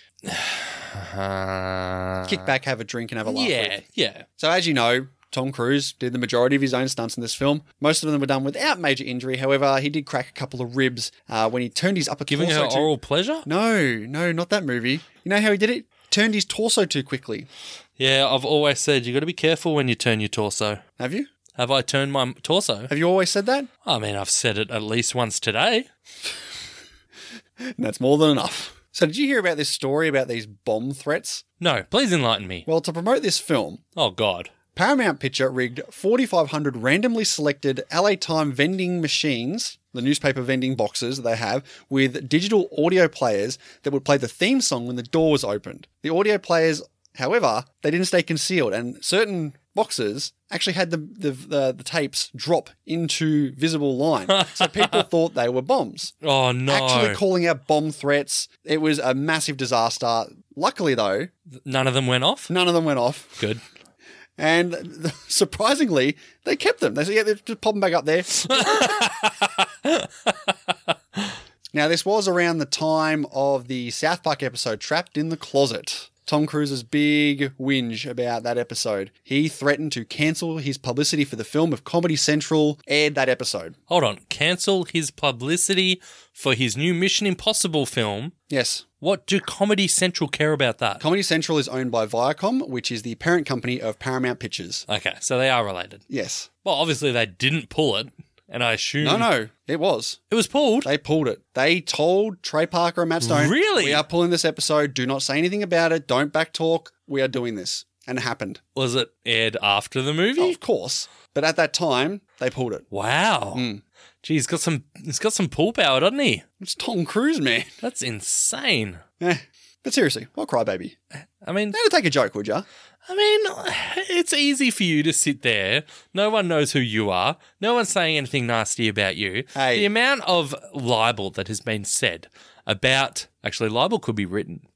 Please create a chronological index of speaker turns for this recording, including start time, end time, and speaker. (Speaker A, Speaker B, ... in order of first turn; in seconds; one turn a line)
Speaker A: 0.2-2.5
Speaker B: 2.2-3.8
Speaker A: 3.3-4.2
Speaker B: 4.4-12.9
Speaker A: 12.3-13.5
Speaker B: 13.5-17.5
Speaker A: 18.0-20.8
Speaker B: 21.0-21.3
Speaker A: 21.6-22.9
Speaker B: 22.9-23.7
Speaker A: 23.9-25.9
Speaker B: 27.8-31.4
Speaker A: 31.6-32.7
Speaker B: 32.7-33.8
Speaker A: 34.0-34.5
Speaker B: 34.7-56.2
Speaker A: 54.4-54.9
Speaker A: 56.2-57.2
Speaker B: 56.7-61.3
Speaker A: 61.6-62.5
Speaker B: 62.5-63.5
Speaker B: 64.4-69.1
Speaker A: 68.3-71.3
Speaker B: 71.7-83.8
Speaker A: 83.9-88.3
Speaker B: 88.5-88.8
Speaker A: 89.0-91.0
Speaker B: 91.0-94.8
Speaker A: 94.9-96.0
Speaker B: 96.1-96.5
Speaker A: 96.7-99.3
Speaker B: 99.0-100.2
Speaker A: 100.3-100.9
Speaker B: 100.8-108.6
Speaker A: 103.2-104.0
Speaker A: 108.8-110.6
Speaker B: 110.4-112.9
Speaker A: 112.9-113.6
Speaker B: 113.5-113.8
Speaker A: 114.2-116.4
Speaker B: 116.6-117.7
Speaker A: 117.8-119.0
Speaker B: 119.2-121.0
Speaker A: 121.4-121.8
Speaker B: 121.7-122.7
Speaker A: 123.1-134.7
Speaker B: 129.6-129.9